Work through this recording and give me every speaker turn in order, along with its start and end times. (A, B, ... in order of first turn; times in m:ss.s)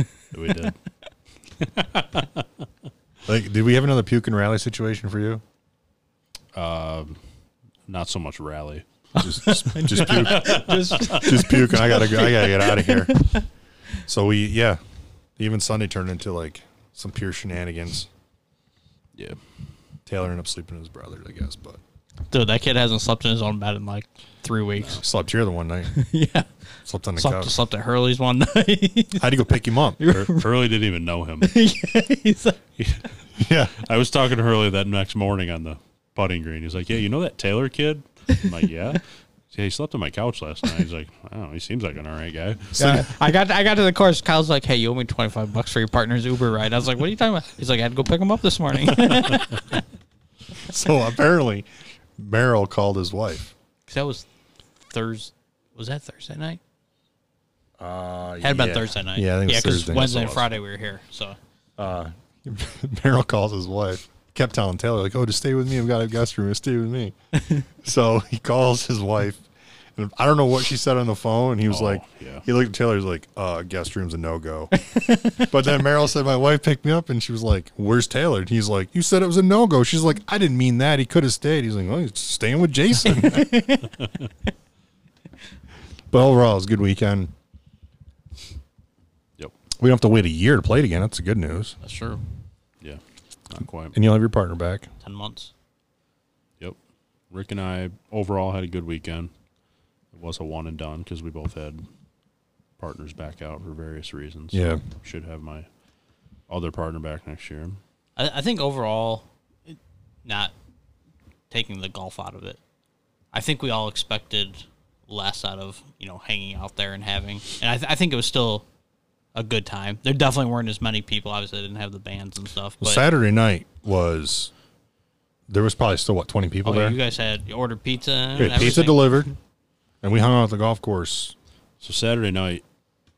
0:00.3-0:00.8 A
0:01.7-0:02.4 A
0:03.2-0:05.4 B
0:06.5-0:07.2 A
0:07.9-0:08.8 A
0:09.1-0:13.4 C
0:09.2-0:13.3 B
0:09.5-0:11.4 A
0:14.0-0:14.8 B
0:15.4-0:18.1 B
0:20.1-0:21.8 B
0:22.3-0:25.0 C
0:25.0-0:25.9 B
0:25.9-0:26.5 C
0:26.8-0:27.5 B
0:27.2-0:30.5 C
0:29.2-0:30.3 B
0:30.2-0:31.5 A
0:31.4-0:32.6 C
0:32.8-0:33.0 A
0:33.4-0:33.7 B
0:33.8-0:43.0 A
0:42.8-0:43.1 B
0:42.8-0:49.8 C
0:50.6-0:53.5 B
0:53.9-0:54.3 C
0:54.8-0:56.6 C
0:57.8-1:00.5 B
0:58.4-1:01.4 C
1:01.8-1:07.1 B
1:07.7-1:14.7 B
1:11.7-1:12.4 A
1:14.7-1:15.5 C
1:15.4-1:23.7 B
1:23.1-1:23.9 C
1:26.1-1:27.3 B
1:29.8-1:31.8 B
1:31.8-1:32.2 C
1:32.8-1:34.0 A
1:33.9-1:34.9 B
1:35.0-1:35.5 C
1:37.3-1:39.3 A
1:40.1-1:41.8 A
1:42.8-1:45.7 A
1:44.5-1:44.8 B
1:46.5-1:47.8 A
1:48.2-1:50.5 C
1:51.5-1:52.6 C
1:53.3-1:58.6 C
1:59.3-2:03.0 C
2:02.8-2:04.5 B
2:05.5-2:07.0 B
2:06.6-2:09.3 C
2:08.4-2:09.3 B
2:10.0-2:11.3 B
2:11.8-2:12.6 A